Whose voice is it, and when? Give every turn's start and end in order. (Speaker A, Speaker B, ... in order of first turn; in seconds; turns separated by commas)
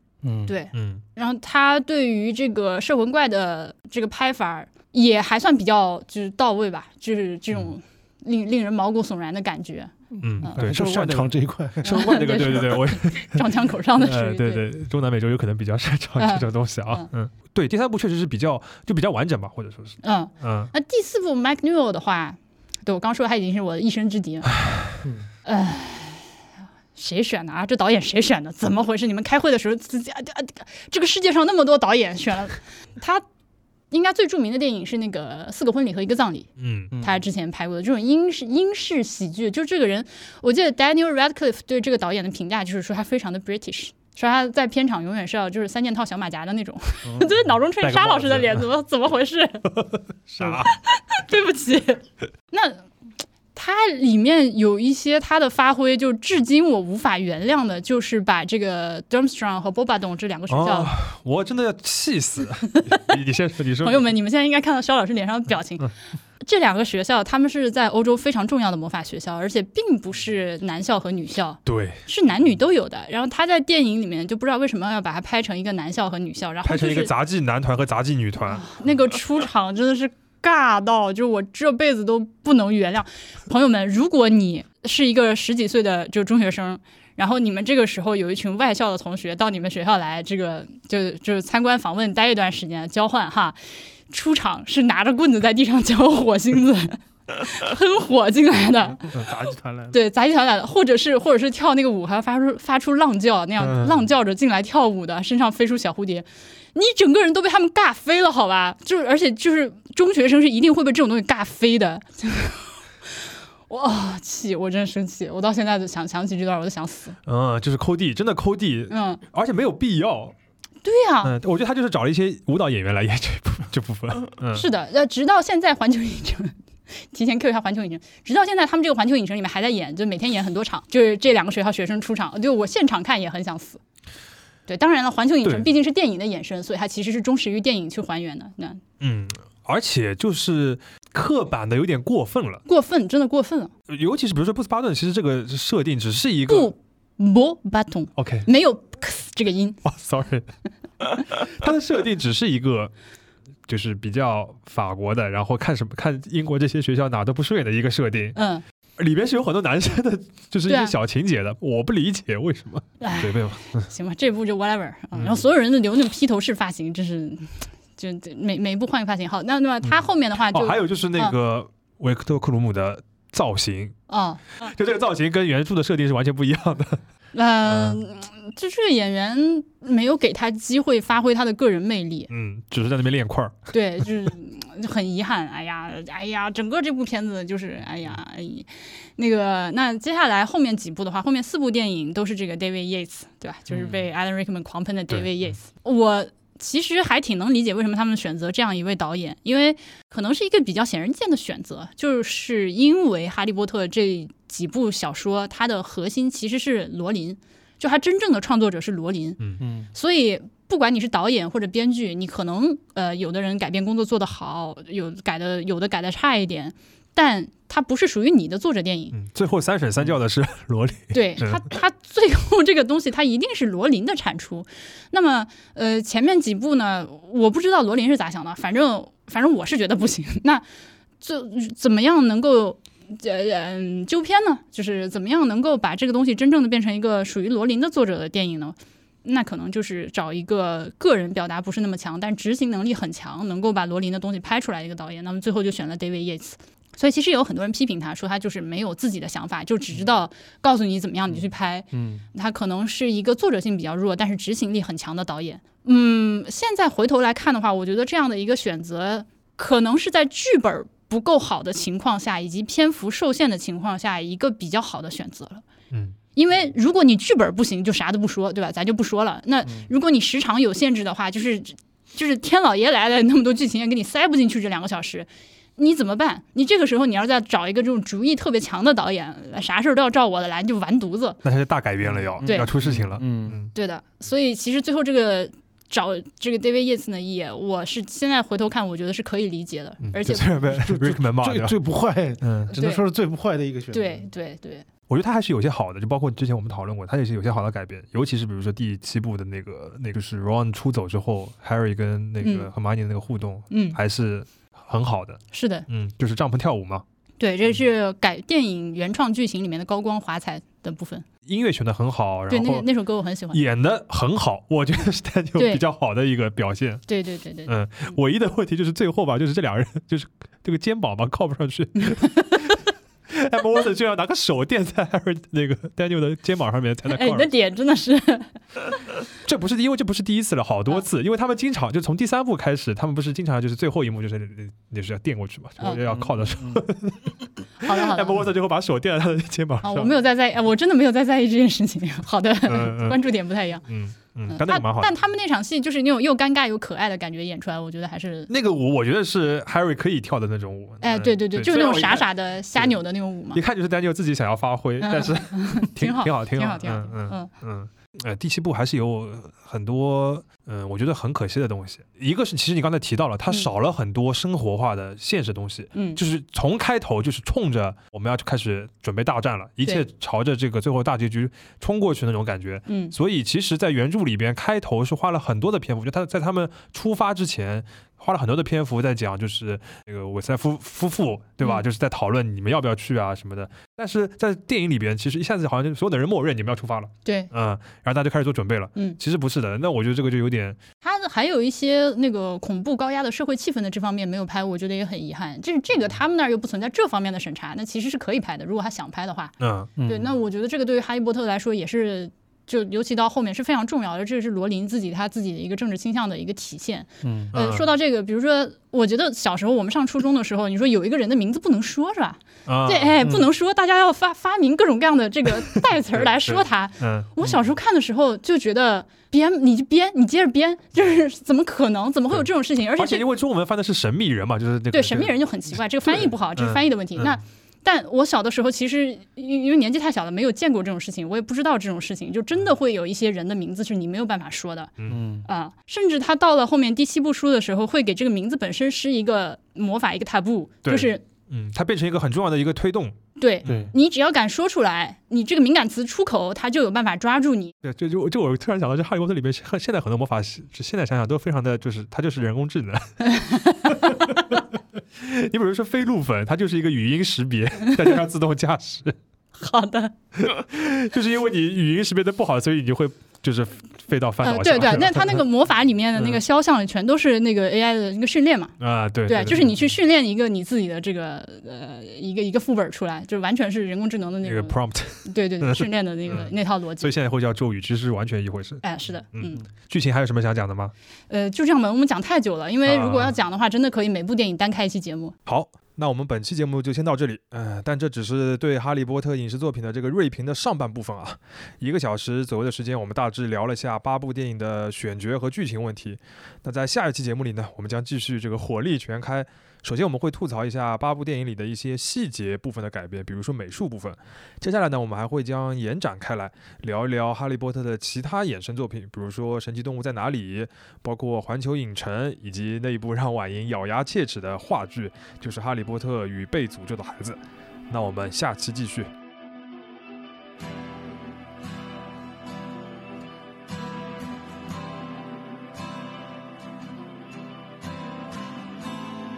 Speaker A: 0.5-10.6, Speaker B: 0.7-1.0, Speaker B: 10.2-13.5, Speaker C: 10.6-12.0, Speaker A: 11.8-14.6, Speaker B: 14.0-20.7, Speaker A: 16.2-17.1, Speaker A: 20.0-24.5, Speaker B: 24.6-25.0, Speaker A: 25.4-26.3, Speaker A: 27.0-33.2, Speaker A: 33.9-49.7, Speaker B: 36.6-37.0, Speaker B: 47.8-48.6, Speaker B: 50.3-50.7, Speaker A: 50.4-52.9, Speaker A: 53.5-60.9, Speaker B: 60.5-64.1, Speaker A: 62.7-63.1, Speaker A: 63.8-77.1, Speaker B: 71.7-72.0, Speaker B: 76.7-78.7, Speaker A: 78.5-99.2, Speaker B: 99.1-99.8, Speaker A: 99.9-112.8, Speaker B: 103.6-103.9, Speaker A: 113.7-117.2, Speaker B: 117.3-120.3, Speaker A: 118.9-119.2, Speaker A: 120.8-121.3, Speaker B: 121.2-124.7, Speaker A: 124.5-133.8, Speaker A: 134.7-138.8, Speaker B: 139.0-142.6, Speaker A: 142.7-143.7, Speaker B: 143.9-146.7, Speaker A: 146.5-149.8, Speaker B: 148.2-148.5, Speaker B: 149.8-150.5, Speaker B: 151.0-152.9, Speaker B: 153.7-158.4, Speaker A: 158.3-158.6, Speaker B: 159.0-163.9, Speaker A: 160.7-160.9, Speaker A: 163.0-171.3, Speaker B: 165.2-165.4, Speaker B: 170.5-174.0, Speaker A: 174.1-174.7, Speaker B: 174.6-177.0, Speaker A: 177.3-182.3, Speaker B: 177.7-178.0, Speaker B: 182.3-183.7, Speaker A: 183.7-209.4, Speaker B: 193.7-194.0, Speaker C: 209.6-209.9, Speaker A: 209.9-219.2, Speaker B: 219.1-221.7, Speaker A: 221.1-230.6, Speaker A: 231.2-265.6, Speaker A: 266.4-281.4, Speaker B: 281.4-283.7, Speaker C: 282.4-283.6, Speaker A: 282.4-282.7, Speaker A: 283.7-290.5, Speaker B: 290.1-291.8, Speaker C: 290.7-294.3, Speaker B: 292.4-292.7, Speaker A: 292.8-293.0, Speaker A: 293.9-294.9, Speaker B: 295.1-307.0, Speaker A: 302.4-302.7, Speaker A: 303.7-304.0, Speaker A: 305.5-305.9, Speaker A: 307.4-311.3, Speaker B: 311.5-312.9, Speaker A: 312.5-313.6, Speaker B: 313.5-317.1, Speaker A: 317.1-317.7, Speaker B: 317.7-327.5, Speaker A: 327.1-328.5, Speaker B: 329.4-340.2, Speaker A: 335.8-336.1, Speaker C: 336.4-336.8, Speaker A: 337.8-338.5, Speaker A: 339.8-343.8, Speaker B: 342.7-343.2, Speaker B: 343.9-345.2, Speaker A: 344.5-348.5, Speaker B: 348.5-353.0, Speaker A: 351.0-353.6, Speaker B: 353.5-390.8, Speaker A: 355.0-357.5, Speaker A: 365.9-366.2, Speaker A: 372.9-373.1, Speaker A: 387.2-387.5, Speaker A: 391.0-399.5, Speaker B: 399.6-399.9, Speaker C: 400.0-400.3, Speaker A: 400.1-423.2, Speaker C: 407.2-407.5, Speaker B: 407.5-407.9, Speaker B: 412.7-413.3, Speaker B: 416.1-417.6, Speaker B: 422.3-425.3, Speaker A: 424.9-441.2, Speaker B: 426.1-427.4, Speaker B: 435.0-435.3, Speaker C: 435.1-435.4, Speaker B: 440.9-443.9, Speaker A: 443.4-447.7, Speaker B: 447.8-453.2, Speaker A: 453.2-454.1, Speaker B: 453.9-454.6, Speaker B: 455.2-459.2, Speaker A: 459.6-460.1, Speaker B: 460.4-465.4, Speaker A: 464.4-468.7, Speaker B: 468.8-469.8, Speaker A: 469.3-477.1, Speaker B: 474.4-478.8, Speaker A: 478.8-479.6, Speaker B: 479.3-480.9, Speaker A: 481.3-485.4, Speaker B: 482.9-483.4, Speaker B: 485.5-519.1